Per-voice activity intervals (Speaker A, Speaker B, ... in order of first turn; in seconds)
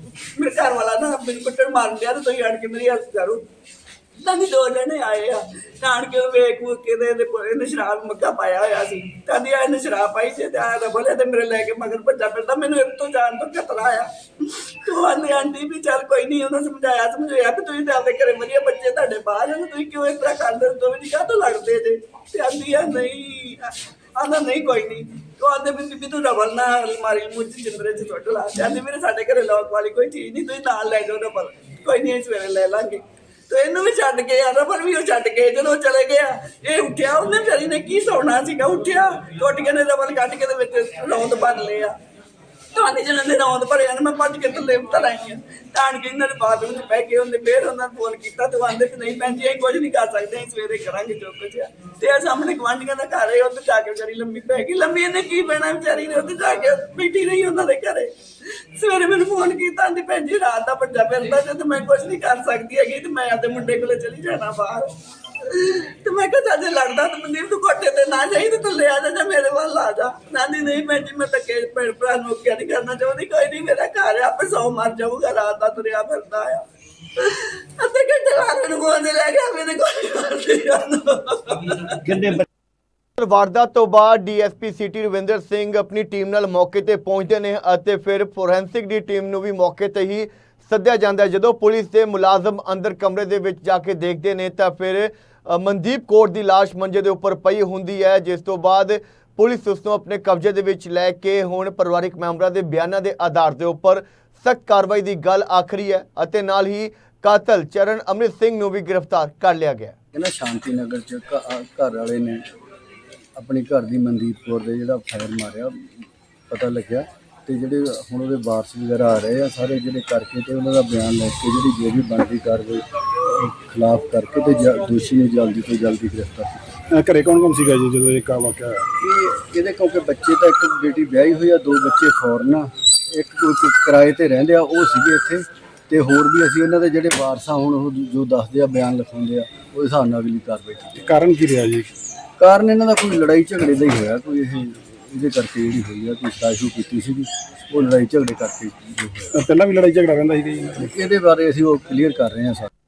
Speaker A: 0.4-3.4, 4.2-41.9, 42.7-58.1, 58.7-76.6, 77.2-82.4
Speaker B: 83.2-109.9
Speaker C: 110.1-112.4, 113.3-126.8, 129.0-141.0, 142.4-149.3, 150.8-152.7
Speaker D: 126.9-128.9, 141.0-141.9, 149.3-150.9